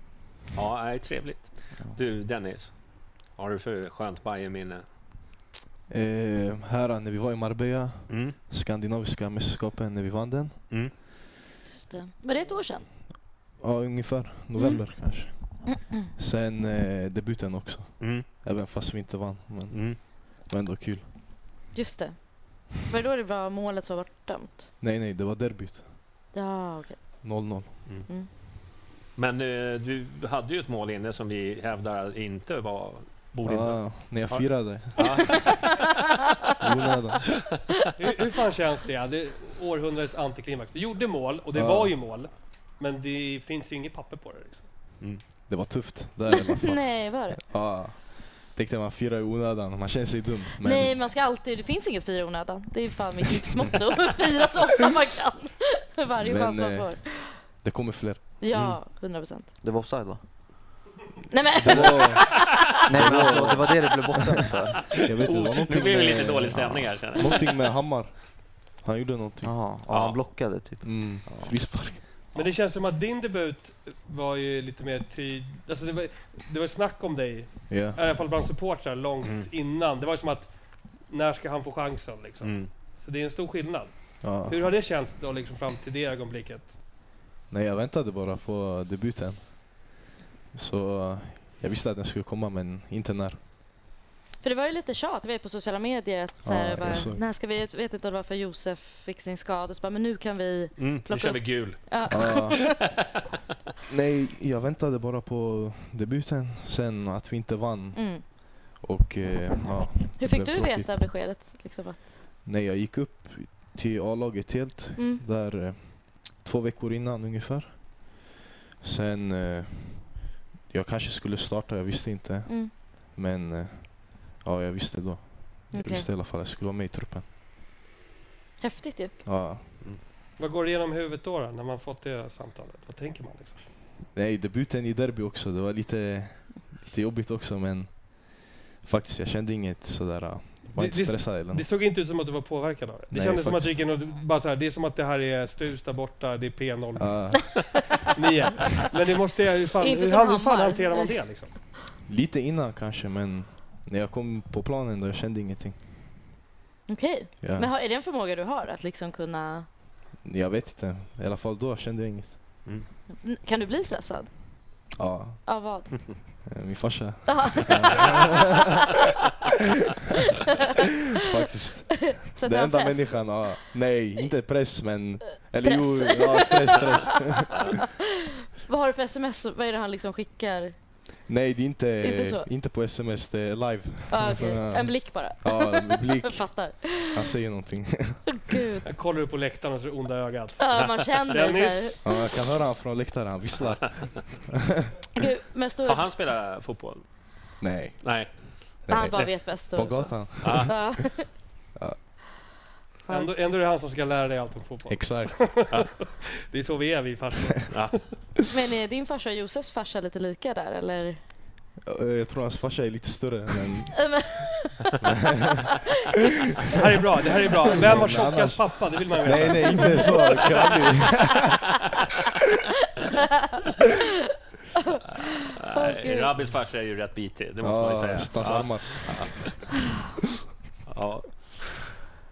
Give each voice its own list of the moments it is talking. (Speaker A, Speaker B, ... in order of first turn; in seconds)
Speaker A: 0.6-4.9, 8.1-8.4, 18.0-18.3, 19.7-20.0, 29.1-35.8, 58.5-58.8, 65.1-67.5, 69.9-70.2, 79.2-79.5, 82.4-82.7, 100.8-102.7, 195.8-198.8, 200.4-200.9, 207.7-208.0, 225.6-229.5, 230.9-231.9
Speaker B: 5.9-10.7, 13.6-21.1, 24.8-25.9, 27.2-28.0, 33.4-35.5, 36.6-37.5, 41.5-41.9, 45.5-51.0, 56.2-58.3, 61.6-63.9, 65.0-69.6, 70.8-72.1, 77.7-78.0, 84.2-84.7, 87.5-90.0, 90.5-93.4, 96.4-97.2, 102.1-103.0, 103.9-110.9, 112.4-118.3, 118.8-127.3, 129.2-129.8, 134.1-141.7, 143.1-143.9, 147.0-147.9, 152.1-155.8, 157.4-157.7, 160.2-162.4, 165.0-165.6, 166.5-168.4, 171.2-177.8, 181.3-188.4, 192.0-194.9, 197.6-201.1, 204.9-205.6, 211.8-215.1, 217.4-221.7, 227.6-229.6
Speaker C: 11.7-12.9, 14.6-14.8, 15.4-16.1, 21.7-24.7, 26.3-27.6, 46.5-47.4, 50.6-57.4, 58.4-59.5, 61.3-62.5, 94.4-102.7, 107.9-108.2, 110.2-112.1, 115.0-115.2, 122.5-122.7, 125.7-126.1, 128.6-129.2, 149.8-151.1, 156.9-159.7, 163.1-164.9, 165.4-166.4, 167.3-168.3, 172.1-173.7, 175.6-177.5, 178.7-180.8, 182.0-182.5, 184.1-187.3, 188.3-188.9, 190.6-192.2, 195.2-196.1, 198.9-201.4, 203.1-203.3, 208.5-211.2, 214.0-214.7, 219.8-220.4, 225.7-226.3
Speaker D: 38.0-44.7, 72.3-86.8, 130.4-133.7, 140.7-147.4, 148.2-151.6, 188.9-192.1, 203.1-208.1, 216.7-220.6
Speaker E: 59.6-60.8, 61.7-61.9, 62.9-65.0, 69.4-71.7